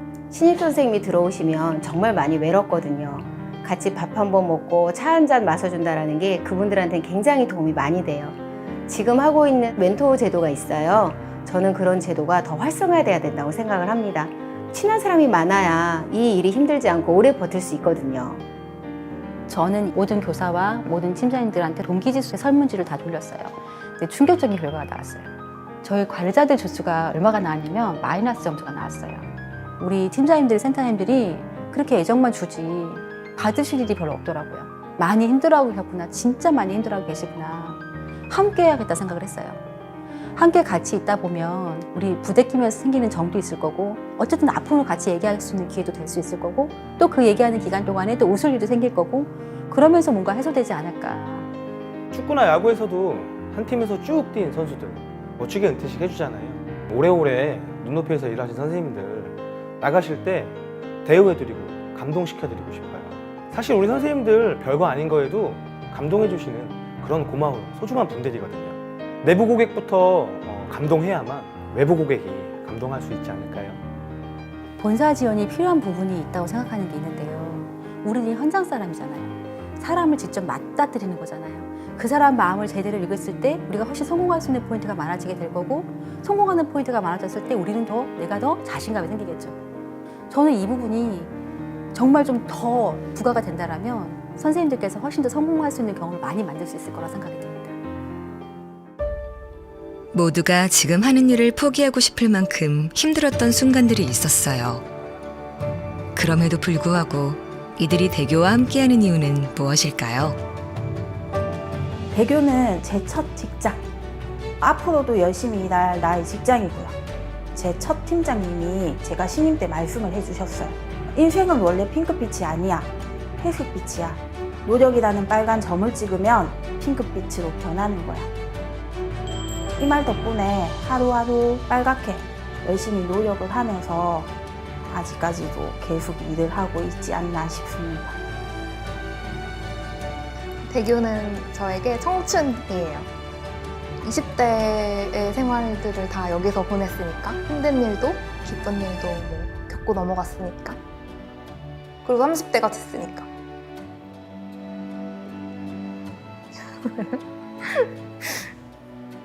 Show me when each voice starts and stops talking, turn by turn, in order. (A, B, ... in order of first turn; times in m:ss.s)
0:00.3-0:18.4 A
0:19.5-0:25.3 B
0:25.8-0:29.3 B
0:29.8-0:39.6 B
0:40.4-0:51.5 B
0:52.1-1:13.8 C
1:14.8-1:29.6 B
1:30.3-1:31.3 B
1:31.9-1:37.8 B
1:40.1-1:44.8 D
1:46.1-1:50.4 D
1:52.1-1:53.8 E
1:54.6-1:57.0 E
1:57.5-2:08.3 E
2:09.8-2:14.3 E
2:14.8-2:18.2 E
2:20.7-2:23.1 F
2:24.0-2:30.8 F
2:32.0-2:33.3 F
2:36.8-2:37.7 F